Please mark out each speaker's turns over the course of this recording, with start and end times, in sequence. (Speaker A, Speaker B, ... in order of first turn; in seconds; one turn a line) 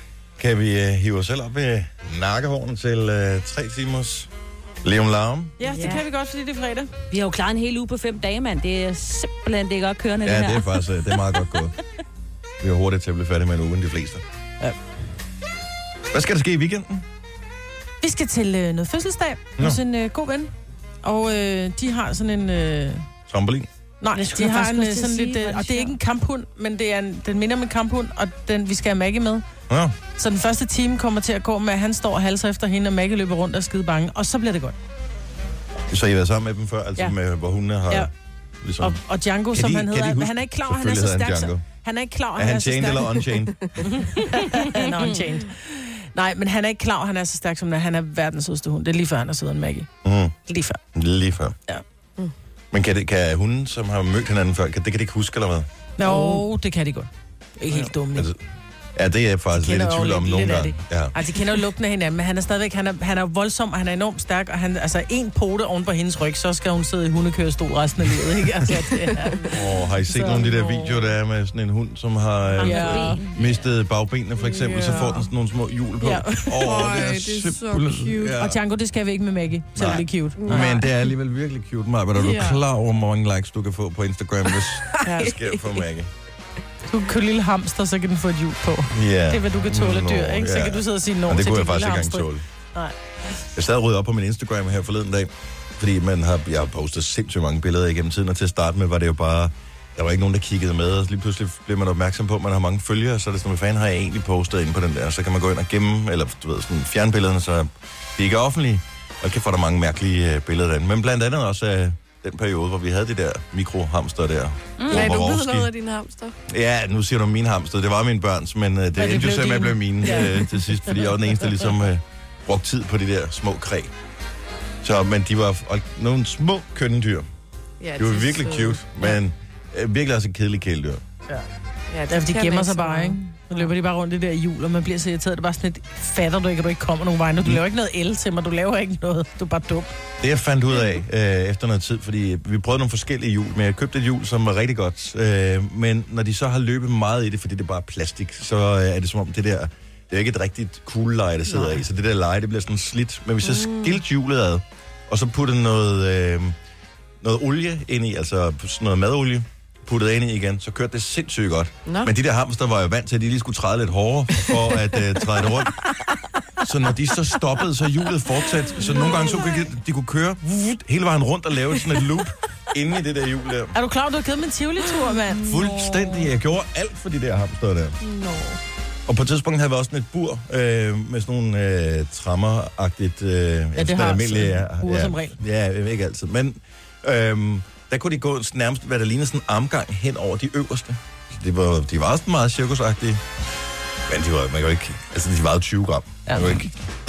Speaker A: 0.4-4.3
Speaker A: 4.8-5.6
Speaker B: 5.6-6.9
Speaker C: 5.7-6.0
Speaker D: 7.1-10.9
Speaker A: 10.2-11.8
Speaker A: 12.6-14.2
Speaker A: 16.1-17.1
Speaker B: 18.0-20.5
Speaker B: 21.0-23.1
Speaker A: 23.3-23.7
Speaker B: 24.0-29.4
Speaker D: 24.1-26.0
Speaker A: 29.7-30.0
Speaker B: 30.2-34.8
Speaker A: 35.9-38.1
Speaker A: 38.6-39.0
Speaker B: 38.8-43.2
Speaker A: 39.5-41.6
Speaker A: 42.4-43.8
Speaker B: 43.8-49.9
Speaker A: 50.0-50.4
Speaker B: 50.5-50.8
Speaker A: 51.0-51.6
Speaker A: 52.7-55.7
Speaker B: 56.0-58.3
Speaker A: 57.7-58.4
Speaker A: 59.0-61.1
Speaker B: 59.5-69.5
Speaker C: 68.7-69.4
Speaker A: 69.5-78.6
Speaker B: 70.1-71.0
Speaker D: 72.6-73.6
Speaker B: 72.6-73.2
Speaker C: 74.4-75.1
Speaker B: 76.0-76.8
Speaker C: 76.5-78.4
Speaker B: 78.3-80.8
Speaker A: 79.8-86.1
Speaker C: 80.4-80.9
Speaker C: 82.2-82.6
Speaker B: 85.1-85.3
Speaker B: 86.9-93.0
Speaker A: 88.9-92.5
Speaker A: 93.5-115.7
Speaker D: 114.8-115.2
Speaker C: 114.9-116.4
Speaker A: 116.5-123.9
Speaker B: 119.0-120.6
Speaker A: 124.8-127.3
Speaker C: 127.8-128.8
Speaker A: 128.0-131.0
Speaker C: 131.9-133.6
Speaker B: 132.1-139.9
Speaker A: 140.2-156.6
Speaker C: 153.4-154.0
Speaker A: 157.2-165.8
Speaker A: 166.6-173.8
Speaker B: 173.8-175.6
Speaker A: 175.4-178.0
Speaker C: 178.0-178.6
Speaker A: 179.1-193.2
Speaker B: 183.8-185.4
Speaker A: 194.1-196.7
Speaker B: 196.3-196.7